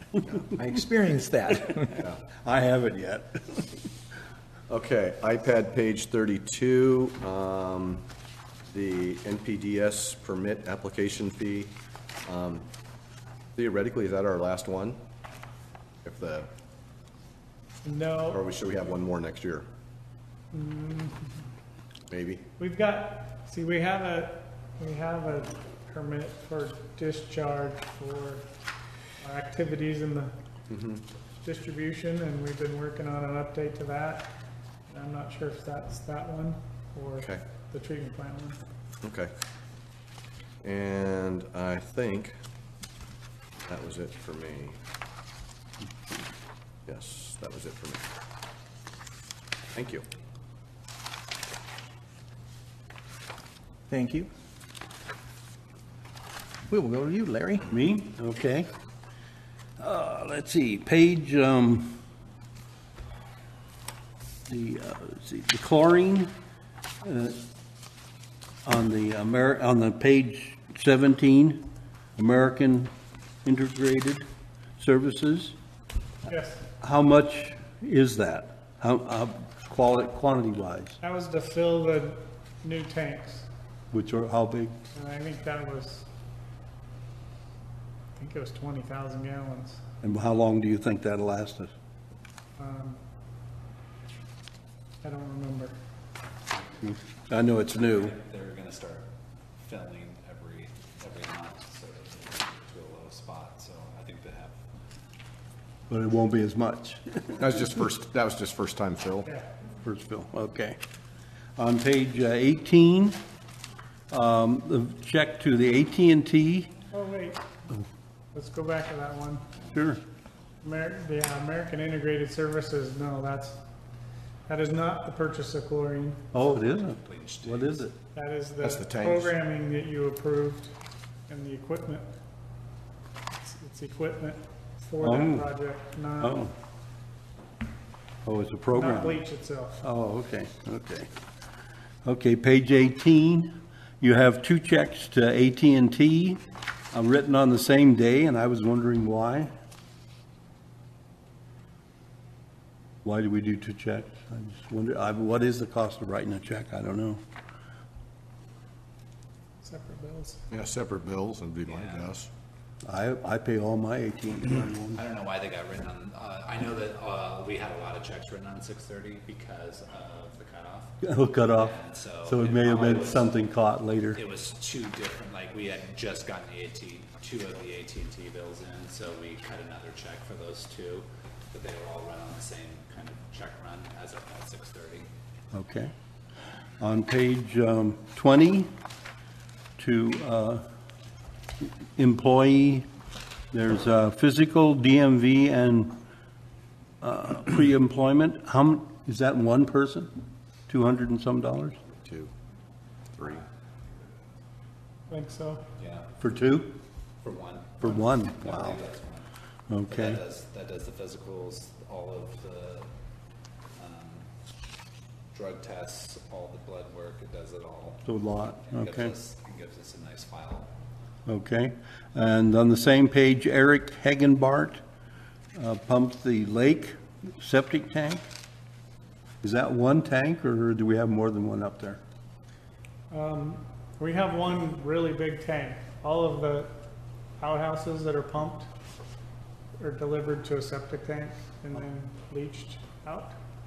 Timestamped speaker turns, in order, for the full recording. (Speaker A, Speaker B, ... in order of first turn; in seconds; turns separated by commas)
Speaker A: 0.3-2.0, Speaker B: 1.8-3.7, Speaker C: 4.7-8.0, Speaker C: 8.7-12.7, Speaker C: 13.6-15.0, Speaker C: 16.0-16.5, Speaker D: 17.8-18.4, Speaker C: 18.3-19.6, Speaker D: 20.5-21.4, Speaker C: 22.1-22.4, Speaker D: 22.6-28.5, Speaker D: 29.2-30.3, Speaker C: 30.7-31.0, Speaker D: 31.4-34.3, Speaker D: 34.9-38.6, Speaker C: 39.0-39.3, Speaker C: 40.6-42.3, Speaker C: 43.6-44.8, Speaker C: 46.9-48.0, Speaker C: 49.7-50.0, Speaker A: 53.9-54.3, Speaker A: 56.7-57.6, Speaker B: 57.7-58.7, Speaker B: 59.8-62.0, Speaker B: 64.5-66.3, Speaker B: 67.0-67.4, Speaker B: 68.6-71.6, Speaker B: 72.2-72.9, Speaker B: 73.4-74.2, Speaker B: 74.8-75.5, Speaker D: 76.2-76.6, Speaker B: 76.8-81.0, Speaker D: 81.0-83.5, Speaker B: 83.9-84.8, Speaker D: 84.9-86.1, Speaker D: 88.2-89.8, Speaker B: 90.0-91.7, Speaker D: 92.6-93.0, Speaker D: 95.0-95.7, Speaker B: 96.8-98.1, Speaker E: 97.8-104.6, Speaker B: 105.9-107.5, Speaker C: 107.4-109.3, Speaker B: 109.8-110.8, Speaker B: 111.6-113.2, Speaker B: 114.1-116.7, Speaker D: 116.9-117.4, Speaker D: 118.3-119.4, Speaker B: 119.7-120.0, Speaker D: 120.6-123.6, Speaker D: 124.5-126.3, Speaker B: 126.3-128.0, Speaker E: 126.8-127.9, Speaker D: 128.1-130.7, Speaker C: 128.6-129.3, Speaker D: 131.3-132.1, Speaker D: 133.4-136.4, Speaker B: 135.0-135.5, Speaker B: 136.2-136.5, Speaker B: 138.2-139.2, Speaker D: 138.7-139.8, Speaker B: 139.8-141.1, Speaker B: 142.0-146.4, Speaker B: 146.9-149.5, Speaker B: 153.0-157.2, Speaker D: 159.6-160.4, Speaker C: 160.5-162.3, Speaker E: 161.6-162.2, Speaker B: 162.8-165.0, Speaker E: 164.9-173.3, Speaker B: 171.0-174.2, Speaker E: 174.1-185.1, Speaker B: 185.5-185.9, Speaker B: 186.8-188.7, Speaker B: 189.8-190.6, Speaker B: 191.6-192.9, Speaker B: 193.5-195.9, Speaker B: 197.0-200.1, Speaker B: 200.7-201.8, Speaker C: 202.0-202.3, Speaker C: 203.2-203.4, Speaker D: 205.1-205.6, Speaker E: 205.8-206.1, Speaker B: 206.2-206.8, Speaker E: 207.2-209.3, Speaker B: 207.8-208.8, Speaker B: 209.7-210.2, Speaker E: 209.9-212.9, Speaker E: 213.8-214.2, Speaker E: 215.3-220.7, Speaker B: 218.1-219.1, Speaker B: 221.2-224.8, Speaker B: 225.5-228.2, Speaker B: 229.4-232.0, Speaker D: 233.1-236.8, Speaker D: 237.4-238.7, Speaker D: 239.8-243.3